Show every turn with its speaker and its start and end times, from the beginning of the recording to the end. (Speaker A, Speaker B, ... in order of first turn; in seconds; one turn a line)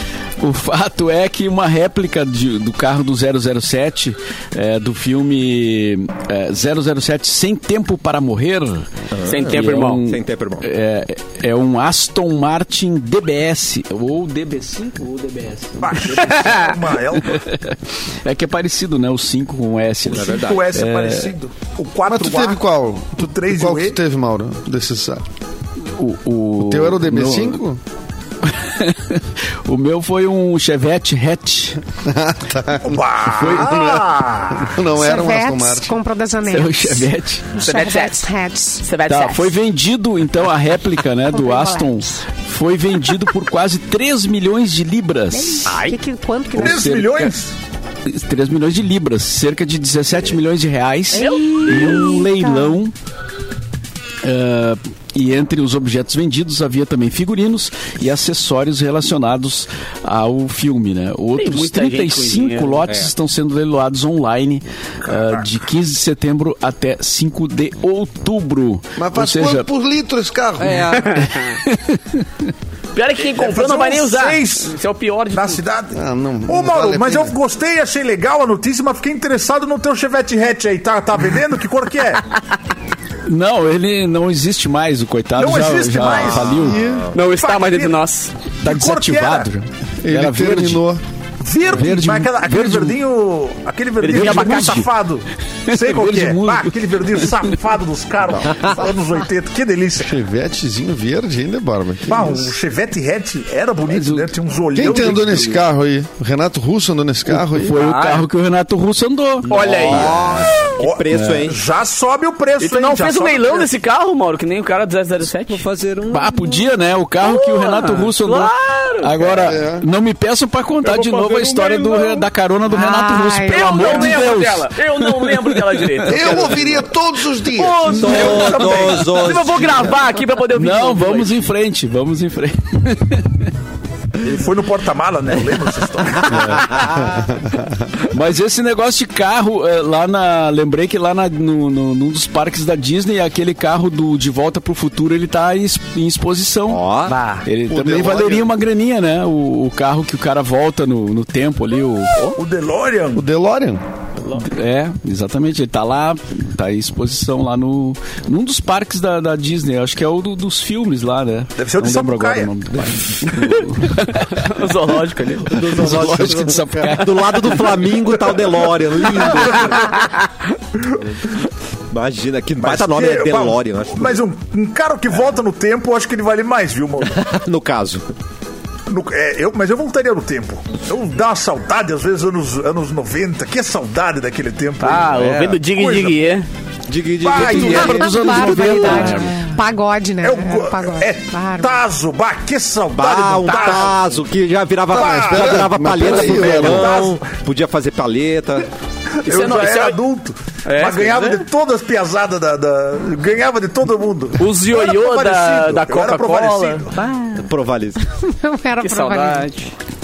Speaker A: 0.4-8.9
Speaker B: 9.1-10.7
Speaker C: 9.3-10.0
Speaker A: 9.4-16.7
Speaker D: 15.8-17.4
Speaker A: 17.3-21.4
Speaker B: 20.1-20.6
Speaker D: 20.2-22.6
Speaker E: 22.1-25.2
Speaker D: 23.2-24.0
Speaker A: 25.9-27.6
Speaker E: 26.6-27.8
Speaker A: 28.4-31.8
Speaker E: 32.0-36.0
Speaker D: 32.8-34.8
Speaker A: 33.4-33.7
Speaker F: 34.9-38.9
Speaker A: 36.4-37.6
Speaker C: 37.6-38.3
Speaker C: 38.8-39.5
Speaker A: 39.1-45.8
Speaker F: 41.3-42.1
Speaker F: 45.6-47.0
Speaker C: 45.6-46.0
Speaker A: 46.5-47.3
Speaker D: 46.6-47.5
Speaker A: 48.1-52.9
Speaker C: 51.1-52.5
Speaker A: 54.2-69.7
Speaker C: 61.4-62.9
Speaker D: 65.1-65.4
Speaker E: 69.0-71.0
Speaker B: 70.6-71.2
Speaker C: 71.0-71.5
Speaker A: 71.3-72.3
Speaker C: 72.9-75.6
Speaker D: 73.2-74.8
Speaker D: 75.3-82.3
Speaker E: 75.9-77.3
Speaker A: 83.3-86.8
Speaker D: 85.4-88.0
Speaker B: 86.1-87.1
Speaker E: 86.7-87.0
Speaker C: 87.1-88.3
Speaker A: 88.6-90.8
Speaker D: 88.6-89.5
Speaker E: 90.0-91.0
Speaker D: 91.4-100.2
Speaker A: 91.7-93.0
Speaker C: 94.0-94.9
Speaker A: 94.0-94.9
Speaker A: 95.7-96.8
Speaker F: 98.7-99.2
Speaker E: 100.0-102.5
Speaker D: 102.1-105.6
Speaker A: 103.9-104.3
Speaker E: 104.8-107.8
Speaker A: 107.3-109.5
Speaker C: 107.8-108.3
Speaker C: 109.5-110.8
Speaker B: 109.5-111.6
Speaker D: 110.8-113.7
Speaker A: 111.1-111.4
Speaker C: 112.6-115.6
Speaker B: 115.5-116.6
Speaker A: 116.1-126.0
Speaker C: 117.2-119.5
Speaker E: 119.5-119.8
Speaker B: 120.8-122.2
Speaker F: 122.7-124.2
Speaker C: 123.5-126.6
Speaker E: 126.1-128.1
Speaker B: 126.4-126.7
Speaker C: 127.6-131.4
Speaker D: 127.9-129.2
Speaker B: 127.9-129.7
Speaker A: 128.1-128.4
Speaker A: 130.5-133.5
Speaker D: 134.2-136.6
Speaker B: 136.7-137.3
Speaker E: 137.0-137.7
Speaker A: 138.1-146.9
Speaker B: 146.7-147.2
Speaker C: 147.1-147.4
Speaker A: 147.4-152.4
Speaker E: 147.7-148.5
Speaker D: 152.4-153.3
Speaker E: 153.1-153.8
Speaker A: 154.3-167.8
Speaker D: 161.6-162.5
Speaker C: 164.3-165.6
Speaker B: 165.5-169.9
Speaker C: 169.4-170.3
Speaker B: 171.9-174.2
Speaker D: 172.6-177.2
Speaker B: 177.1-178.1
Speaker D: 178.9-185.1
Speaker C: 184.8-186.5
Speaker B: 185.1-185.6
Speaker D: 185.7-186.3
Speaker B: 186.9-188.1
Speaker D: 187.2-188.1
Speaker A: 187.3-189.5
Speaker F: 187.7-191.8
Speaker D: 190.2-194.0
Speaker B: 192.9-198.7
Speaker E: 194.9-197.0
Speaker D: 194.9-197.2
Speaker D: 199.2-206.9
Speaker C: 199.2-200.0
Speaker C: 200.6-201.4
Speaker C: 204.4-207.5
Speaker B: 207.3-208.0
Speaker F: 208.2-209.5
Speaker C: 208.8-209.7